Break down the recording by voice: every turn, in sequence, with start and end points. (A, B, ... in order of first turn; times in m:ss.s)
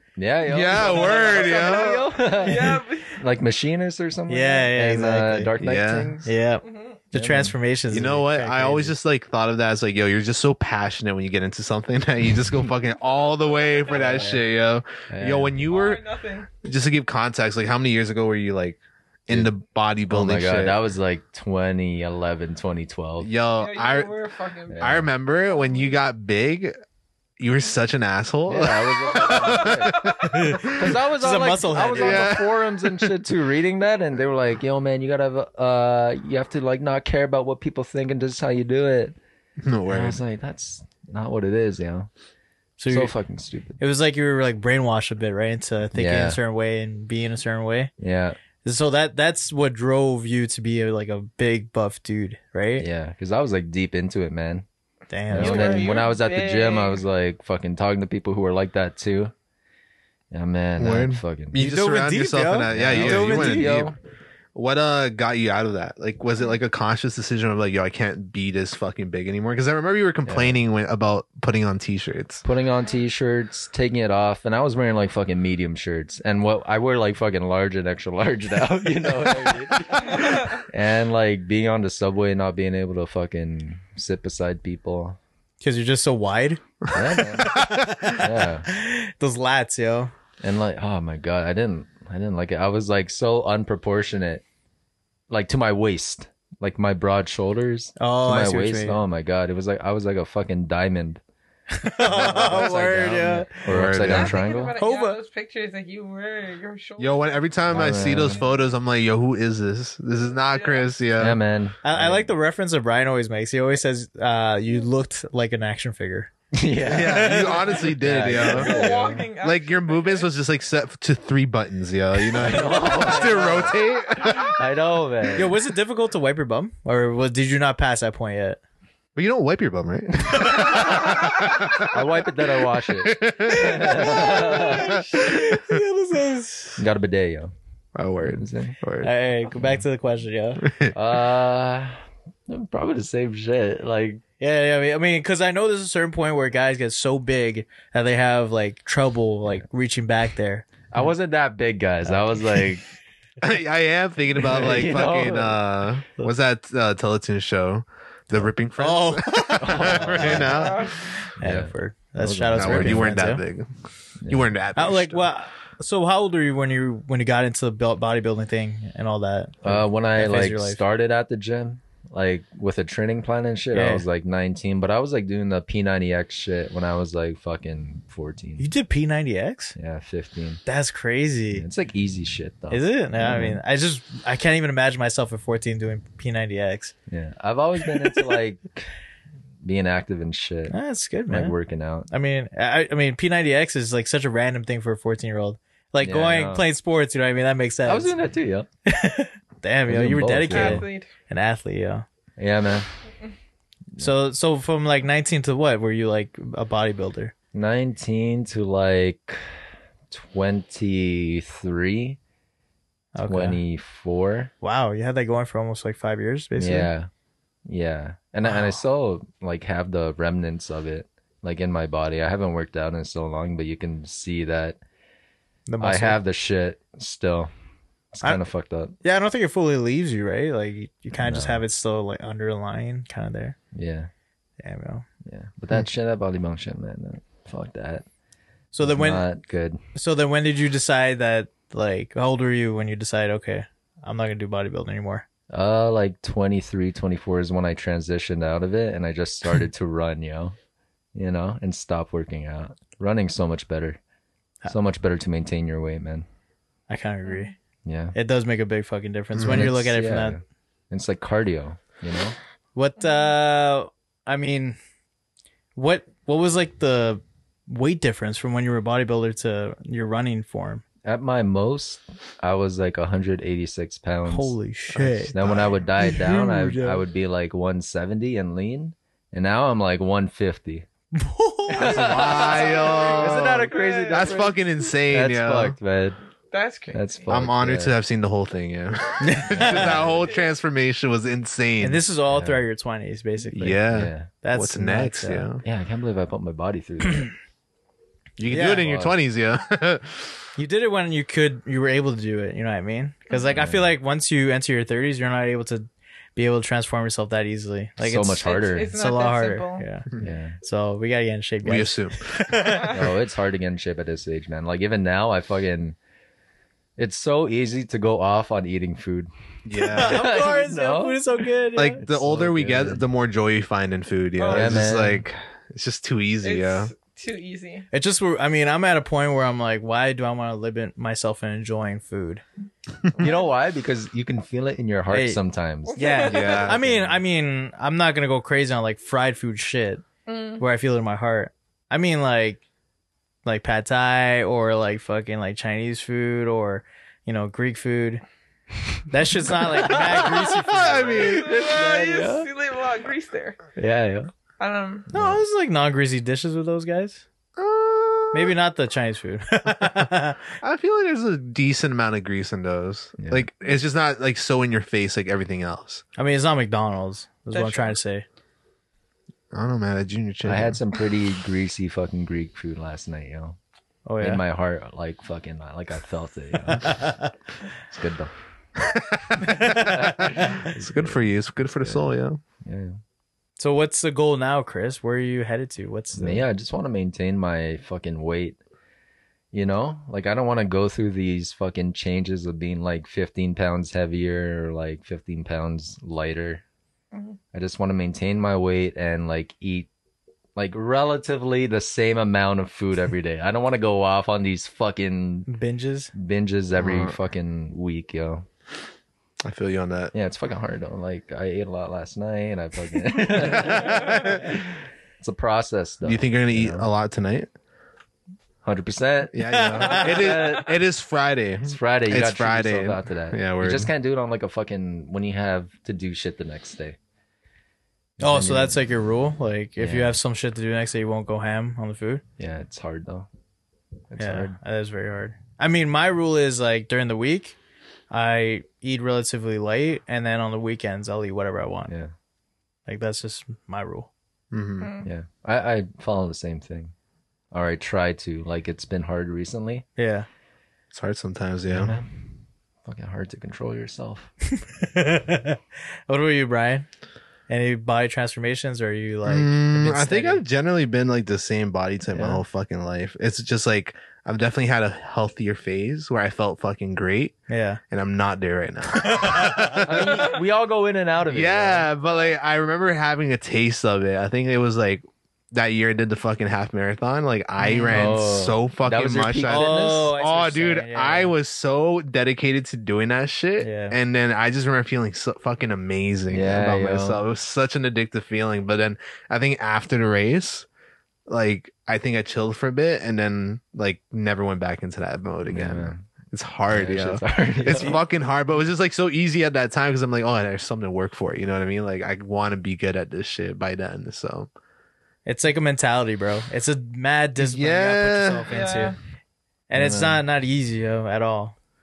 0:00.2-0:06.3 A
0:00.4-0:02.1 B
0:00.7-0:03.2 C
0:04.3-0:05.5 D
0:05.6-0:06.2 B
0:06.2-0:09.0 D
0:06.6-0:07.0 C
0:07.1-0:07.5 A
0:07.9-0:16.0 B
0:13.4-0:14.4 C
0:14.0-0:14.4 D
0:15.1-0:15.6 A
0:15.7-0:16.5 C
0:16.6-0:20.8 B
0:20.1-0:23.3 A
0:23.2-0:24.1 B
0:23.6-0:24.9 C
0:24.7-0:25.1 A
0:24.8-0:26.7 B
0:27.4-0:30.8 B
0:28.5-0:39.2 A
0:29.1-0:30.2 C
0:30.3-0:32.4 D
0:31.9-0:32.6 B
0:39.6-0:40.2 B
0:39.9-0:42.1 A
0:42.8-0:43.1 D
0:42.9-0:43.8 A
0:43.8-0:47.9 D
0:45.9-0:46.4 A
0:48.0-0:48.4 A
0:48.6-0:52.9 D
0:52.8-0:54.6 A
0:55.1-0:56.0 D
0:55.3-0:59.3 A
0:55.4-0:57.0 C
1:00.3-1:01.6 A
1:00.8-1:03.9 B
1:01.6-1:03.8 D
1:02.7-1:04.0 A
1:04.5-1:12.4 B
1:10.2-1:10.6 A
1:12.4-1:25.2 A
1:20.1-1:20.6 C
1:25.6-1:30.1 D
1:26.8-1:28.2 B
1:26.9-1:28.6 A
1:30.4-1:34.4 A
1:35.3-1:41.2 A
1:38.0-1:39.0 D
1:41.7-1:44.0 D
1:42.0-1:44.8 A
1:43.7-1:44.4 B
1:44.0-1:48.4 C
1:44.8-1:45.2 D
1:47.0-1:51.4 B
1:47.7-1:48.5 A
1:50.2-1:50.9 C
1:51.2-1:52.3 A
1:51.8-1:58.4 D
1:56.5-1:59.3 A
1:56.9-2:04.6 B
1:58.2-2:00.3 C
2:02.3-2:05.5 A
2:05.3-2:08.6 D
2:09.2-2:11.9 B
2:11.9-2:15.1 A
2:12.9-2:15.8 B
2:13.5-2:15.3 C
2:14.4-2:16.8 D
2:16.8-2:17.5 A
2:17.9-2:19.1 B
2:18.2-2:18.7 A
2:19.0-2:20.6 D
2:20.6-2:20.9 B
2:20.9-2:24.2 A
2:24.4-2:30.6 D
2:30.9-2:32.8 A
2:32.0-2:32.5 D
2:33.4-2:40.9 B
2:34.5-2:35.6 A
2:38.3-2:40.5 D
2:39.6-2:40.7 A
2:40.2-2:41.1 C
2:41.4-2:43.4 D
2:41.4-2:43.1 A
2:42.6-2:43.7 B
2:44.2-2:44.5 A
2:44.3-2:45.3 B
2:44.7-2:50.8 D
2:49.6-2:58.6 A
2:53.7-2:54.0 D
2:58.6-2:59.7 D
2:59.8-3:00.6 A
3:00.6-3:01.6 D
3:01.5-3:03.6 A
3:02.7-3:06.9 D
3:07.1-3:08.9 A
3:09.6-3:10.8 A
3:10.7-3:11.5 D
3:11.3-3:12.1 A
3:12.1-3:18.2 D
3:16.0-3:16.6 A
3:17.8-3:18.7 A
3:18.8-3:22.0 D
3:19.9-3:20.9 A
3:20.5-3:21.1 C
3:22.4-3:22.9 A
3:24.0-3:27.3 D
3:27.5-3:29.4 A
3:30.1-3:32.2 A
3:33.1-3:33.6 D
3:33.2-3:34.5 A
3:34.6-3:36.9 D
3:36.6-3:37.1 A
3:37.6-3:44.8 A
3:38.4-3:38.8 D
3:45.7-3:46.2 D
3:45.8-3:47.5 A
3:48.1-3:48.9 A
3:49.0-3:53.6 D
3:51.2-3:51.6 A
3:53.7-3:54.1 A
3:54.6-3:55.0 D
3:55.2-3:58.0 A
3:58.7-3:59.3 D
3:58.8-3:59.8 A
3:59.9-4:05.2 D
4:05.5-4:10.6 A
4:11.1-4:14.0 A
4:14.7-4:16.2 A
4:16.9-4:17.5 D
4:17.2-4:17.5 C
4:17.8-4:18.1 A
4:18.1-4:20.4 D
4:19.3-4:19.7 B
4:19.4-4:22.4 A
4:22.7-4:24.8 D
4:25.8-4:30.8 D
4:31.0-4:34.5 A
4:34.3-4:35.4 D
4:34.9-4:35.7 B
4:35.3-4:40.8 A
4:36.0-4:37.0 D
4:41.1-4:42.1 D
4:41.7-4:45.8 B
4:41.7-4:46.2 A
4:42.2-4:44.4 C
4:46.5-4:47.2 C
4:46.9-4:47.9 A
4:47.3-4:52.0 B
4:49.2-4:50.0 D
4:49.5-4:50.3 A
4:51.8-4:53.8 D
4:52.3-4:52.6 A
4:53.5-4:55.6 B
4:53.9-4:54.3 A
4:54.4-4:55.5 D
4:55.6-4:57.3 A
4:58.4-5:00.4 B
4:58.5-4:58.8 D
4:58.6-4:59.2 A
5:00.6-5:10.1 D
5:03.5-5:03.9 A
5:08.0-5:08.9 A
5:08.4-5:09.8 C
5:10.2-5:10.6 A
5:10.6-5:13.0 D
5:11.6-5:12.7 B
5:12.6-5:13.0 C
5:12.9-5:16.0 A
5:17.0-5:19.3 A
5:19.6-5:20.4 B
5:19.7-5:22.0 D
5:19.9-5:21.5 A
5:21.7-5:26.9 B
5:22.0-5:23.0 A
5:24.4-5:24.9 C
5:24.5-5:25.2 A
5:26.4-5:27.9 C
5:27.9-5:32.4 D
5:33.2-5:33.4 C
5:33.2-5:37.2 A
5:35.1-5:35.4 D
5:35.9-5:36.7 C
5:35.9-5:40.0 D
5:36.2-5:36.8 B
5:40.3-5:40.6 C
5:40.6-5:42.6 D
5:43.4-5:48.2 D
5:49.1-5:51.3 D
5:49.5-5:52.5 A
5:49.9-5:51.6 B
5:51.0-5:53.6 C
5:53.8-5:54.3 A
5:54.6-5:55.0 C
5:55.1-5:55.4 A
5:55.1-5:57.2 D
5:57.6-5:58.5 B
5:58.3-6:00.4 D
6:00.6-6:06.0 B
6:03.2-6:03.5 A
6:06.2-6:08.2 D
6:07.5-6:08.0 C
6:09.5-6:10.8 B
6:10.4-6:13.6 A
6:14.0-6:14.4 D
6:14.2-6:17.1 A
6:16.8-6:17.3 D
6:17.9-6:18.3 A
6:18.8-6:22.4 B
6:19.4-6:20.0 D
6:19.5-6:21.2 A
6:22.6-6:23.0 A
6:23.6-6:26.4 D
6:26.1-6:28.6 A
6:29.5-6:36.6 A
6:37.1-6:37.4 C
6:37.5-6:39.9 A
6:40.6-6:45.5 A
6:45.5-6:46.1 D
6:46.1-6:48.4 A
6:46.8-6:47.2 B
6:49.4-6:50.1 B
6:50.1-6:56.9 A
6:53.2-6:54.6 B
6:56.0-6:57.5 B
6:58.6-7:00.7 A
6:59.3-7:03.9 B
6:59.5-7:00.6 D
7:01.6-7:07.0 A
7:08.2-7:08.8 A
7:08.2-7:12.2 D
7:09.8-7:10.1 A
7:12.4-7:13.3 A
7:14.1-7:14.6 A
7:14.2-7:17.6 D
7:18.1-7:21.9 D
7:22.8-7:24.1 D
7:24.5-7:24.9 B
7:24.8-7:25.1 C
7:25.0-7:26.9 A
7:27.5-7:29.8 A
7:30.0-7:30.3 D
7:30.9-7:32.0 B
7:31.7-7:34.3 A
7:34.5-7:36.8 D
7:37.5-7:40.4 D
7:39.2-7:47.4 B
7:42.1-7:42.4 A
7:47.5-7:47.8 D
7:47.9-7:50.2 B
7:49.0-7:49.9 D
7:49.8-7:51.9 A
7:51.3-8:10.6 B
7:57.6-7:58.2 D
7:57.8-8:00.1 A
7:59.4-8:01.3 D
8:03.6-8:04.0 D
8:06.3-8:07.2 A
8:11.3-8:24.5 B
8:15.5-8:16.1 A
8:16.7-8:18.0 A
8:17.6-8:18.0 D
8:25.2-8:28.9 D
8:27.4-8:28.5 B
8:28.5-8:29.0 C
8:29.7-8:31.5 D
8:29.7-8:30.2 A